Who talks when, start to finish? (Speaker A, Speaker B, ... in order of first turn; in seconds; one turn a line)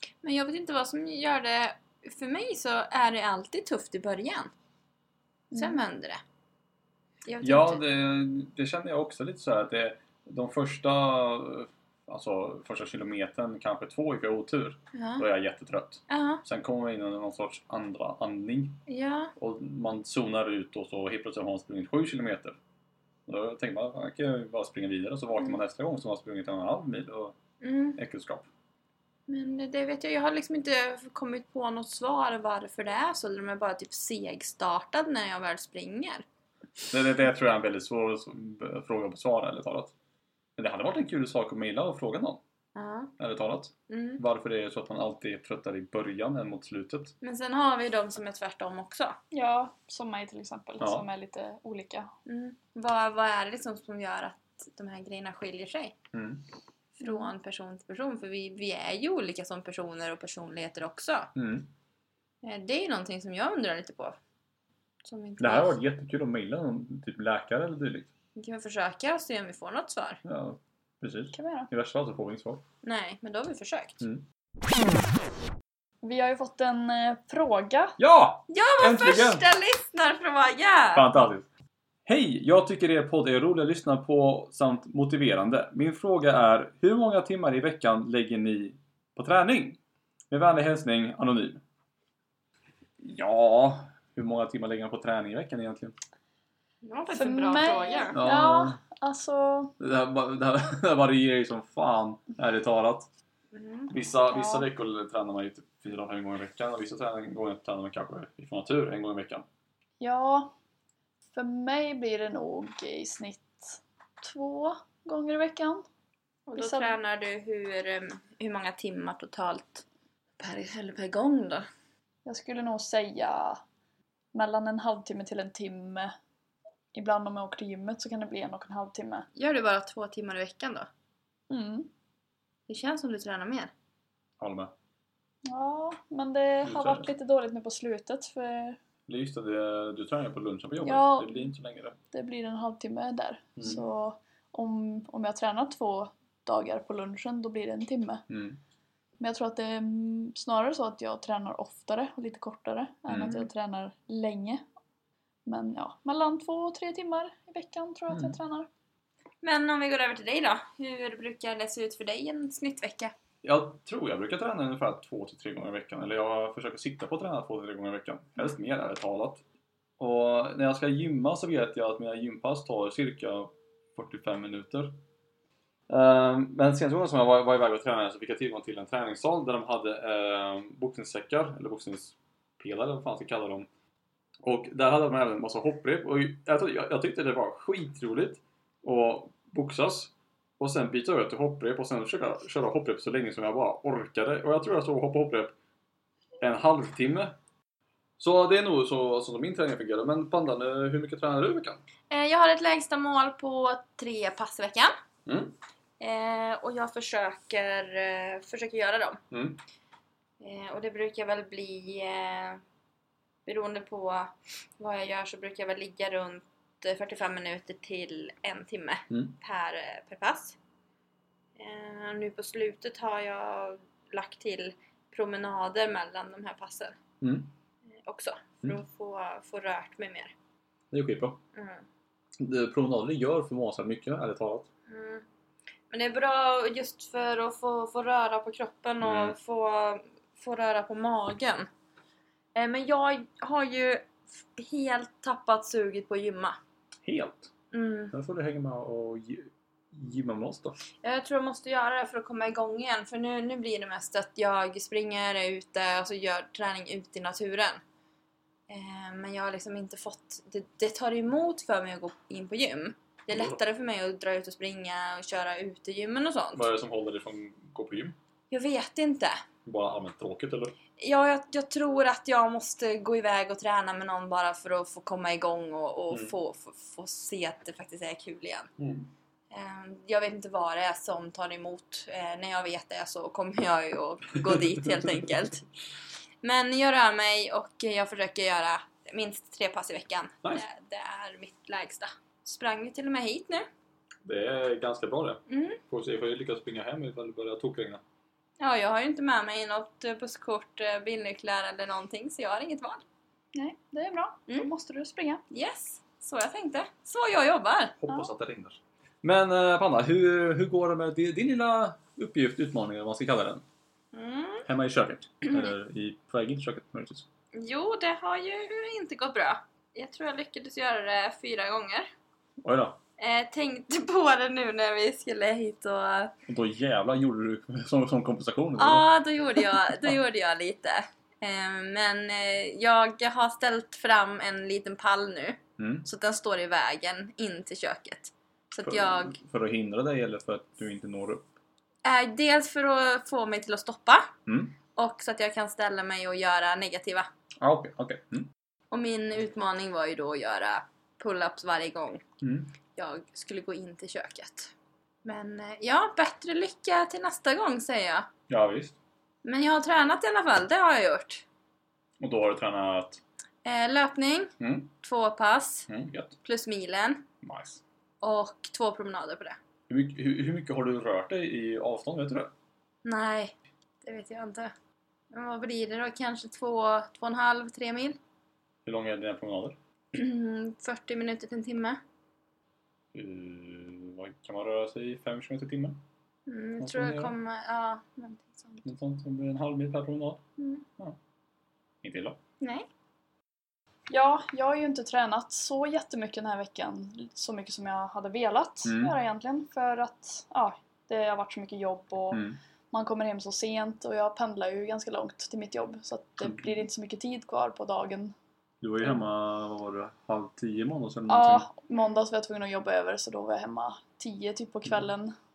Speaker A: 0.2-4.5
Speaker B: 5.5-5.8
Speaker A: 5.5-6.2
Speaker A: 7.2-7.8
Speaker C: 7.4-18.8
Speaker A: 14.9-15.2
Speaker A: 16.1-16.4
Speaker A: 18.9-19.3
Speaker C: 19.4-22.6
Speaker C: 23.3-27.3
Speaker A: 27.6-28.0
Speaker C: 27.9-28.5
Speaker A: 29.3-36.2
Speaker C: 36.9-39.9
Speaker C: 40.6-42.4
Speaker A: 42.7-43.1
Speaker C: 43.2-47.1
Speaker A: 43.9-44.2
Speaker A: 47.2-49.2
Speaker B: 49.3-52.1
Speaker C: 50.8-51.0
Speaker A: 52.2-55.9
Speaker C: 56.1-56.4
Speaker A: 57.0-61.3
Speaker B: 57.0-57.3
Speaker C: 61.3-61.7
Speaker A: 62.4-64.2
Speaker A: 65.0-65.8
Speaker C: 65.4-68.1
Speaker A: 68.3-70.2
Speaker C: 70.2-72.6
Speaker B: 71.3-71.7
Speaker A: 72.8-74.0
Speaker B: 76.0-78.0
Speaker C: 78.0-79.4
Speaker A: 78.5-81.1
Speaker C: 80.9-81.5
Speaker C: 82.0-89.8
Speaker C: 90.3-91.6
Speaker C: 93.0-96.0
Speaker A: 96.8-98.2
Speaker B: 97.1-99.7
Speaker C: 98.1-98.8
Speaker C: 99.8-103.1
Speaker A: 103.5-103.9
Speaker C: 103.9-109.4
Speaker B: 104.3-104.7
Speaker B: 110.0-110.5
Speaker B: 111.3-115.8
Speaker A: 116.5-119.8
Speaker B: 116.5-116.9
Speaker A: 120.4-121.6
Speaker B: 122.2-123.6
Speaker B: 124.3-126.1
Speaker B: 126.9-129.3
Speaker A: 129.3-130.9
Speaker B: 131.5-131.9
Speaker A: 132.7-133.7
Speaker C: 134.4-134.7
Speaker B: 135.4-138.8
Speaker C: 136.6-137.1
Speaker C: 139.1-141.9
Speaker B: 140.8-141.5
Speaker B: 142.1-148.2
Speaker C: 143.6-143.8
Speaker C: 148.3-148.6
Speaker B: 149.2-154.6
Speaker C: 153.1-153.5
Speaker B: 155.4-158.7
Speaker C: 158.1-158.4
Speaker A: 159.4-163.1
Speaker C: 163.4-169.4
Speaker C: 170.0-175.0
Speaker C: 175.9-183.7
Speaker C: 184.4-195.6
Speaker C: 196.4-197.3
Speaker C: 198.2-201.8
Speaker A: 202.1-204.9
Speaker C: 205.2-205.6
Speaker A: 206.0-209.2
Speaker C: 209.3-209.6
Speaker A: 210.4-212.6
Speaker A: 213.4-220.6
Speaker A: 221.6-227.0
Speaker C: 227.2-227.5
Speaker A: 228.0-230.3
Speaker C: 230.9-231.4
Speaker A: 231.5-231.8
Speaker C: 232.4-234.7
Speaker A: 234.9-235.2
Speaker A: 235.9-241.7
Speaker C: 239.0-239.3
Speaker A: 242.5-246.6
Speaker C: 247.0-247.5
Speaker A: 247.7-248.1
Speaker C: 248.1-250.8
Speaker A: 251.0-257.8
Speaker A: 258.7-266.7
Speaker C: 263.3-263.6
Speaker C: 266.5-268.1
Speaker A: 268.5-269.3
Speaker C: 269.6-270.8
Speaker A: 271.0-278.7
Speaker C: 278.8-279.1
Speaker A: 279.5-285.6
Speaker A: 286.4-293.6
Speaker C: 294.2-298.0
Speaker A: 295.5-295.8
Speaker A: 298.6-303.0
Speaker B: 303.5-305.4
Speaker A: 305.5-307.9
Speaker C: 308.0-313.6
Speaker A: 314.1-314.7
Speaker C: 314.6-317.2
Speaker A: 315.4-315.7
Speaker A: 317.5-322.1
Speaker C: 322.6-323.0
Speaker A: 323.2-326.3
Speaker C: 326.5-330.1
Speaker A: 328.8-339.4
Speaker C: 335.8-336.0
Speaker C: 338.8-341.5
Speaker A: 342.0-344.3
Speaker C: 344.4-344.8
Speaker A: 344.9-347.3
Speaker C: 347.6-348.5
Speaker A: 348.9-352.2
Speaker C: 352.4-352.7
Speaker A: 352.9-354.7
Speaker A: 355.2-358.3
Speaker C: 358.5-359.0
Speaker A: 359.4-361.4
Speaker C: 362.2-363.2
Speaker A: 363.6-364.5
Speaker C: 364.6-364.9
Speaker A: 365.0-365.9
Speaker C: 365.9-366.3
Speaker A: 366.4-367.2
Speaker C: 367.4-367.8
Speaker A: 368.2-369.6
Speaker C: 369.9-372.5
Speaker A: 373.0-373.5
Speaker A: 374.0-374.7
Speaker A: 375.3-378.2
Speaker C: 378.8-379.8
Speaker A: 380.1-382.0
Speaker C: 383.1-386.0
Speaker A: 386.5-388.8
Speaker C: 386.8-387.3
Speaker C: 388.8-390.4
Speaker A: 390.6-390.8
Speaker C: 392.0-392.4
Speaker A: 392.6-392.9
Speaker B: 394.1-408.3
Speaker C: 398.8-399.1
Speaker C: 402.3-402.6
Speaker C: 406.4-406.8
Speaker C: 408.8-411.7
Speaker B: 411.3-415.3